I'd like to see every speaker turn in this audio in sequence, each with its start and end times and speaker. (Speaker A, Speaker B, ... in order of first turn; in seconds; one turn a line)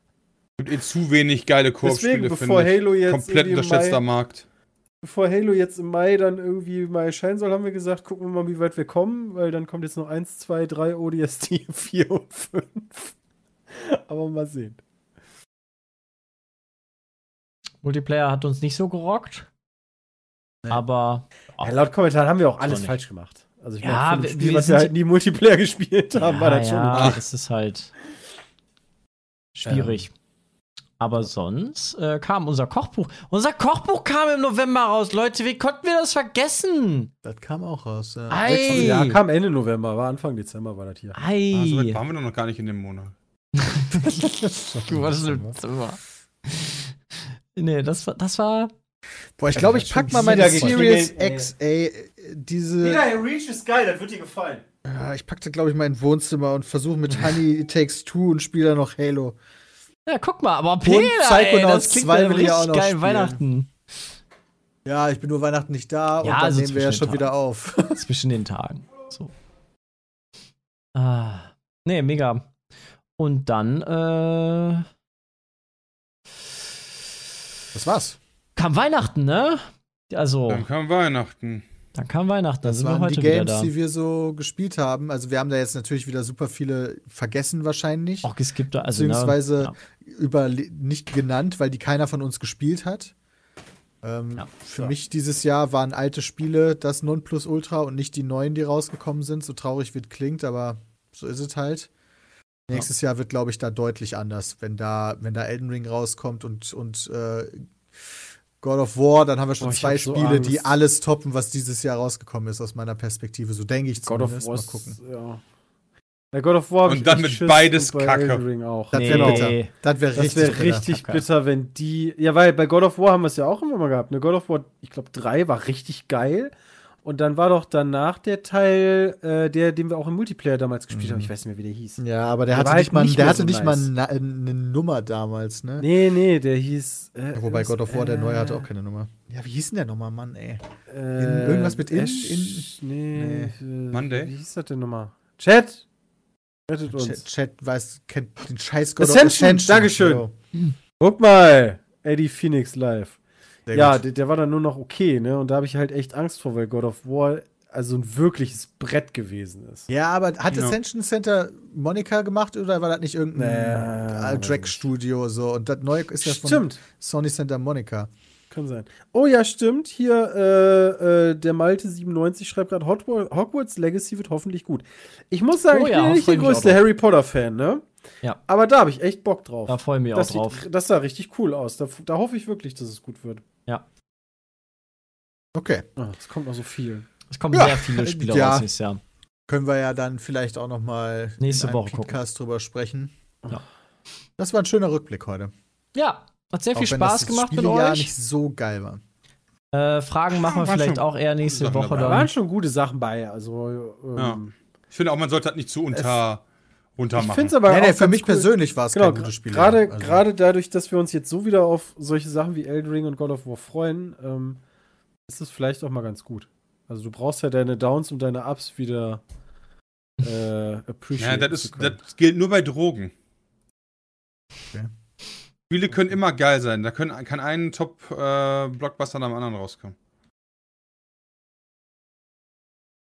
Speaker A: 0.6-4.4
Speaker B: 1.8-4.0
Speaker B: 5.0-13.1
Speaker B: 13.7-14.8
Speaker C: 17.8-19.5
Speaker C: 20.7-21.7
Speaker B: 21.6-27.2
Speaker C: 22.6-22.9
Speaker C: 23.8-24.9
Speaker C: 26.1-27.9
Speaker A: 26.9-27.2
Speaker C: 29.6-30.1
Speaker D: 29.6-30.0
Speaker C: 31.0-37.1
Speaker D: 37.2-39.1
Speaker C: 38.3-39.2
Speaker B: 38.5-41.2
Speaker C: 41.1-42.0
Speaker A: 41.5-43.1
Speaker C: 43.6-46.9
Speaker D: 44.1-45.6
Speaker C: 47.5-48.7
Speaker D: 49.4-53.0
Speaker C: 49.5-50.8
Speaker B: 50.0-51.5
Speaker B: 52.8-54.6
Speaker D: 54.8-59.4
Speaker C: 60.1-63.7
Speaker D: 60.8-63.4
Speaker D: 64.8-68.0
Speaker C: 66.2-67.3
Speaker C: 67.9-69.3
Speaker C: 70.9-72.5
Speaker C: 73.2-74.8
Speaker D: 77.7-78.2
Speaker C: 78.5-80.7
Speaker A: 80.5-81.6
Speaker C: 81.9-83.7
Speaker D: 82.6-88.3
Speaker C: 88.2-89.7
Speaker D: 88.9-93.1
Speaker D: 94.0-101.9
Speaker D: 102.7-107.7
Speaker D: 108.6-115.0
Speaker B: 109.6-110.7
Speaker B: 114.0-115.4
Speaker B: 116.3-119.5
Speaker A: 116.8-118.4
Speaker D: 118.9-120.9
Speaker C: 118.9-119.7
Speaker B: 120.1-126.5
Speaker C: 120.5-121.2
Speaker B: 127.0-133.9
Speaker D: 130.9-131.3
Speaker D: 132.0-135.9
Speaker B: 135.8-138.7
Speaker D: 137.3-140.6
Speaker B: 140.9-145.8
Speaker D: 141.2-143.5
Speaker A: 143.9-144.3
Speaker B: 146.7-147.2
Speaker D: 146.9-150.3
Speaker B: 149.0-150.2
Speaker B: 151.0-153.2
Speaker D: 153.7-154.0
Speaker B: 153.7-159.9
Speaker D: 159.9-168.1
Speaker B: 163.3-164.8
Speaker B: 166.2-166.8
Speaker B: 168.5-177.8
Speaker C: 175.7-176.8
Speaker B: 178.5-183.4
Speaker C: 179.7-180.6
Speaker D: 185.5-185.8
Speaker B: 186.0-187.1
Speaker C: 187.3-189.0
Speaker A: 187.5-187.8
Speaker D: 187.9-188.7
Speaker D: 189.5-193.1
Speaker C: 191.4-192.2
Speaker D: 194.4-195.5
Speaker C: 195.9-198.1
Speaker D: 196.7-199.0
Speaker C: 199.7-202.3
Speaker A: 200.3-202.3
Speaker B: 202.0-204.5
Speaker A: 204.9-206.4
Speaker D: 205.9-206.2
Speaker A: 206.9-207.6
Speaker B: 207.1-214.6
Speaker D: 207.6-210.2
Speaker B: 215.3-219.2
Speaker B: 220.2-222.0
Speaker A: 221.2-223.1
Speaker A: 225.7-229.9